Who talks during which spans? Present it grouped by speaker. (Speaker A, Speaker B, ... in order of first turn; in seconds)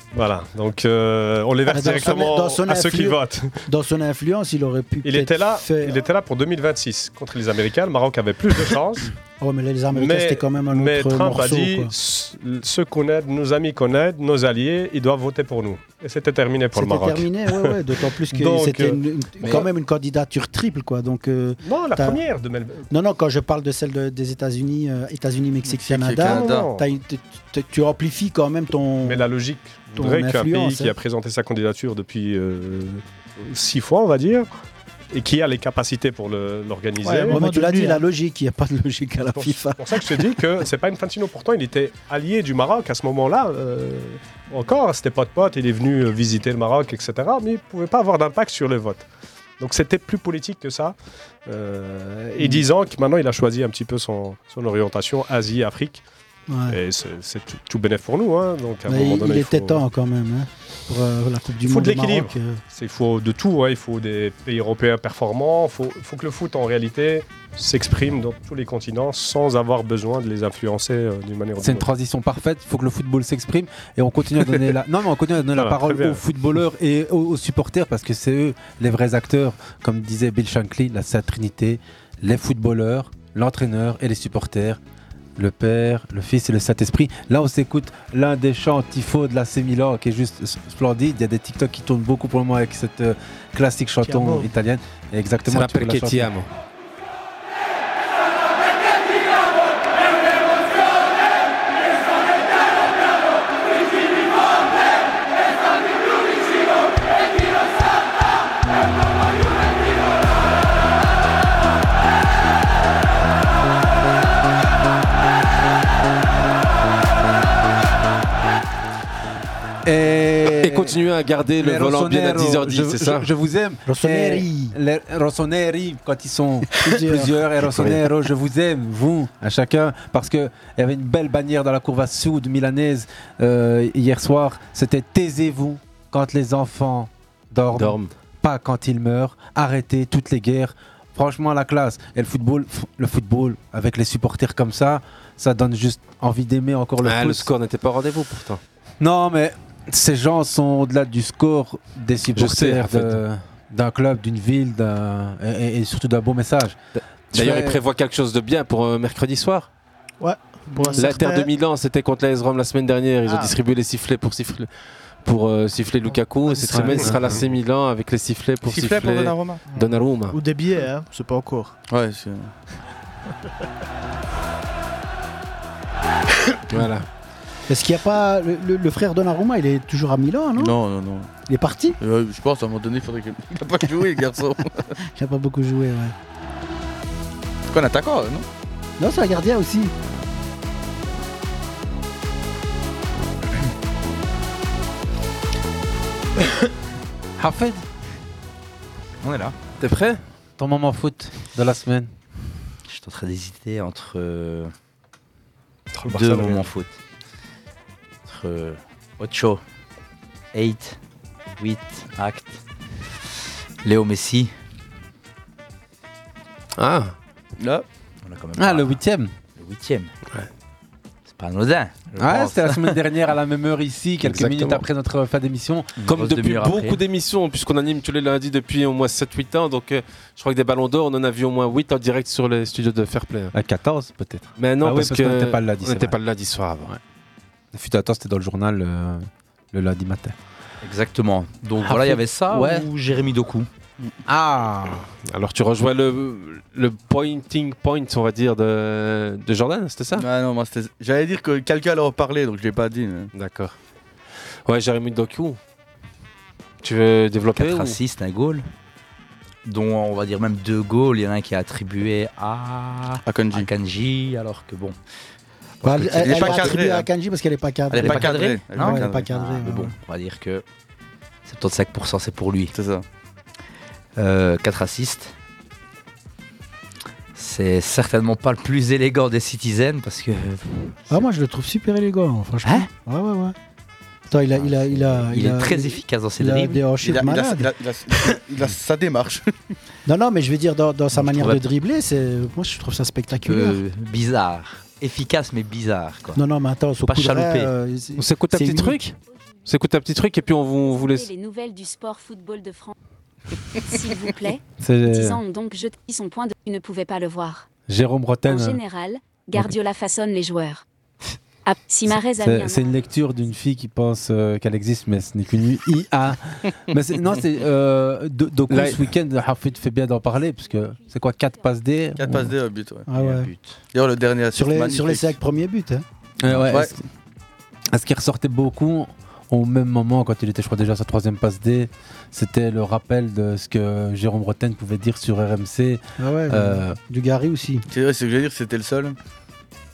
Speaker A: 0.1-3.6, 5.0-9.1, 9.9-19.7, 21.6-22.8, 26.2-26.8, 29.0-34.5, 35.1-37.4, 39.3-49.0, 49.6-50.9, 51.5-56.0, 56.7-59.8, 61.6-71.9, 75.5-76.2, 205.9-206.7
Speaker B: 1.6-6.0, 9.4-11.9, 16.7-22.2, 22.9-29.2, 29.9-30.9, 37.2-40.4, 52.4-52.6, 56.5-56.8, 58.9-62.6, 123.8-124.8, 126.8-127.4, 177.7-180.8, 181.5-182.0, 185.1-186.1, 189.0-189.9, 265.8-269.9, 281.1-283.5, 284.3-287.7, 290.1-293.8, 296.3-299.0, 323.1-323.5, 324.5-326.0, 336.2-337.8
Speaker C: 25.7-26.7, 168.6-169.6, 171.9-172.5, 180.6-181.3, 182.0-184.9, 187.7-188.4, 217.6-217.8, 250.1-253.3, 263.2-263.7, 266.0-267.1, 267.9-269.3, 272.7-273.0, 287.0-289.5, 322.2-323.1, 323.9-325.4, 326.5-327.0, 337.9-339.1
Speaker D: 37.0-38.0, 94.0-94.5, 160.2-161.5, 163.2-163.6, 166.1-167.1, 169.7-171.8
Speaker E: 71.6-84.8, 85.4-96.3, 119.8-121.0, 121.6-147.5, 149.0-156.8, 157.3-157.8, 166.9-167.2, 197.4-197.8, 200.6-202.1, 218.6-219.3, 222.2-225.9, 233.5-236.2, 237.7-240.3, 241.8-242.9, 244.2-245.1, 304.8-305.4, 307.9-308.8, 312.1-322.6, 326.4-326.9, 327.9-337.0
Speaker F: 95.5-96.5, 120.5-123.3, 137.7-138.1, 147.0-148.6, 152.3-153.2, 157.3-159.7, 160.9-164.7, 165.2-170.3, 176.7-177.1, 199.8-200.2, 216.8-217.1, 224.2-224.8, 226.0-233.5, 234.5-236.9, 245.2-250.2, 253.3-253.7, 254.7-255.6, 256.8-258.0, 298.2-299.1, 299.6-301.3, 318.7-319.0
Speaker G: 199.2-199.5, 202.9-204.7, 206.0-206.9, 208.2-209.6, 210.5-211.0, 211.6-212.6, 213.8-214.5, 218.2-219.0, 219.6-220.1, 221.3-223.0, 226.0-227.0, 240.8-243.7, 257.6-258.6, 259.6-265.0, 265.8-266.8, 267.9-270.6, 271.4-272.7, 274.2-275.3, 277.3-281.2, 282.6-282.9, 284.5-286.9, 291.1-291.6, 293.4-296.4, 297.0-297.7, 323.1-323.8
Speaker H: 300.8-302.9, 303.7-307.7, 308.4-310.8, 311.6-313.0